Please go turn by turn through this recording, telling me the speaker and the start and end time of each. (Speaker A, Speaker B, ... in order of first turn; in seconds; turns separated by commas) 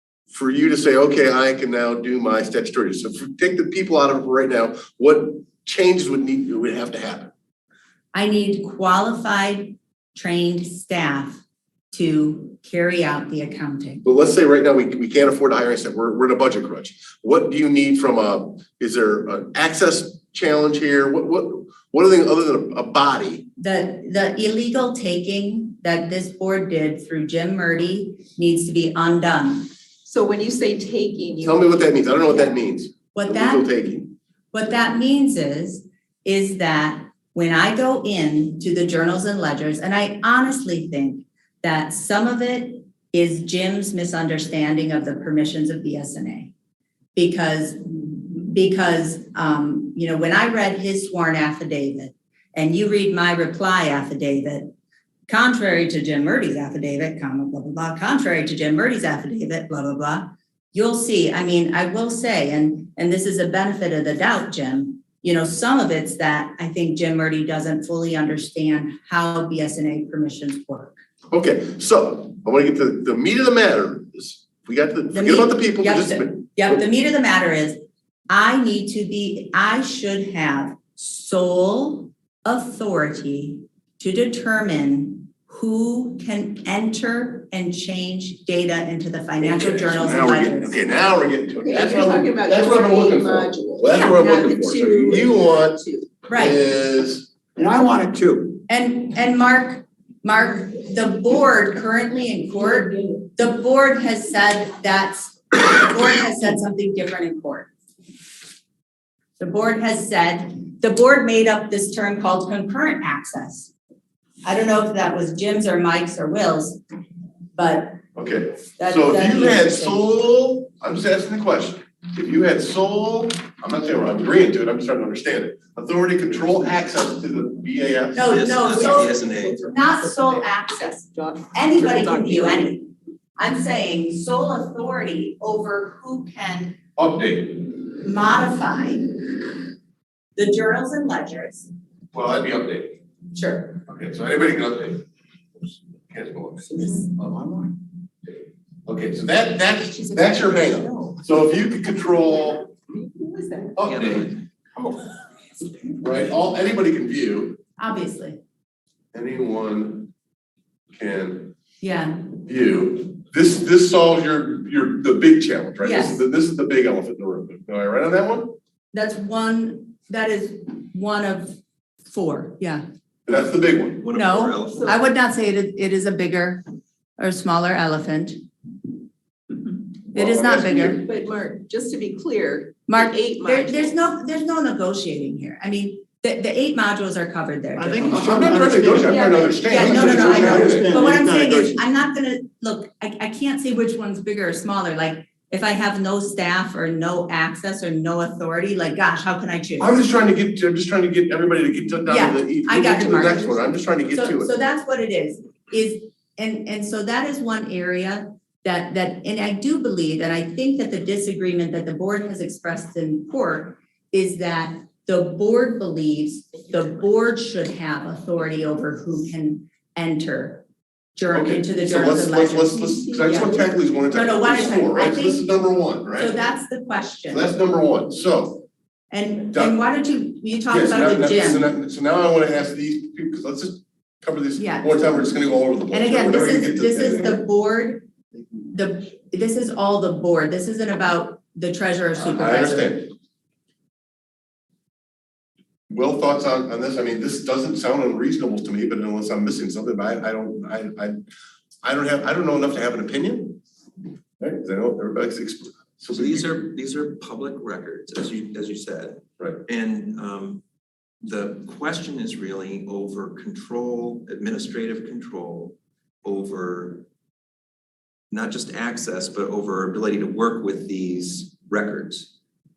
Speaker A: 0.3-7.3, Speaker B: 8.1-14.0, Speaker A: 14.0-23.4, Speaker B: 23.6-29.7, Speaker C: 30.0-31.8, Speaker A: 31.4-34.1, Speaker B: 33.1-33.7, Speaker B: 34.5-46.5, Speaker B: 47.1-54.7, Speaker B: 55.3-71.0, Speaker A: 71.3-76.8, Speaker B: 75.1-90.9, Speaker A: 89.4-95.8, Speaker C: 91.6-96.1, Speaker B: 93.9-94.5, Speaker B: 96.3-96.6, Speaker A: 96.3-97.4, Speaker D: 97.5-98.6, Speaker B: 98.7-107.7, Speaker B: 109.4-113.7, Speaker B: 114.4-116.8, Speaker B: 117.5-118.0, Speaker A: 118.1-128.4, Speaker B: 118.8-120.1, Speaker B: 128.1-136.8, Speaker E: 128.2-129.7, Speaker C: 128.6-130.5, Speaker C: 131.0-132.7, Speaker A: 137.0-137.7, Speaker B: 137.8-139.2, Speaker B: 140.3-141.7, Speaker A: 142.1-142.9, Speaker B: 143.3-143.8, Speaker A: 143.8-145.0, Speaker A: 146.1-147.0, Speaker C: 146.9-147.5, Speaker A: 148.8-152.7, Speaker C: 150.0-151.2, Speaker C: 152.9-153.8, Speaker A: 153.8-154.3, Speaker E: 154.0-154.3, Speaker A: 156.0-157.6, Speaker B: 157.8-158.4, Speaker A: 159.1-160.1, Speaker A: 160.9-161.5, Speaker B: 161.8-162.2, Speaker A: 162.4-168.5, Speaker B: 165.8-166.2, Speaker B: 168.9-172.8, Speaker A: 173.2-174.0, Speaker E: 174.0-174.9, Speaker B: 174.1-176.6, Speaker C: 174.7-175.0, Speaker B: 177.2-178.4, Speaker B: 180.1-181.0, Speaker A: 180.1-181.0, Speaker C: 181.0-183.9, Speaker B: 182.9-188.8, Speaker D: 187.8-191.8, Speaker A: 188.1-191.0, Speaker C: 189.0-190.7, Speaker B: 189.7-200.0, Speaker A: 199.8-204.5, Speaker B: 202.1-220.6, Speaker B: 221.2-223.5, Speaker A: 221.3-226.3, Speaker C: 223.1-223.5, Speaker B: 224.1-225.5, Speaker B: 226.1-227.5, Speaker A: 227.3-228.6, Speaker B: 229.1-231.7, Speaker A: 229.5-229.8, Speaker A: 230.7-237.4, Speaker B: 234.6-235.0, Speaker B: 235.9-238.1, Speaker B: 238.7-242.9, Speaker A: 242.2-243.1, Speaker A: 245.9-251.2, Speaker A: 251.8-253.6, Speaker A: 254.4-256.5, Speaker E: 256.1-260.6, Speaker E: 261.2-267.0, Speaker E: 268.3-272.3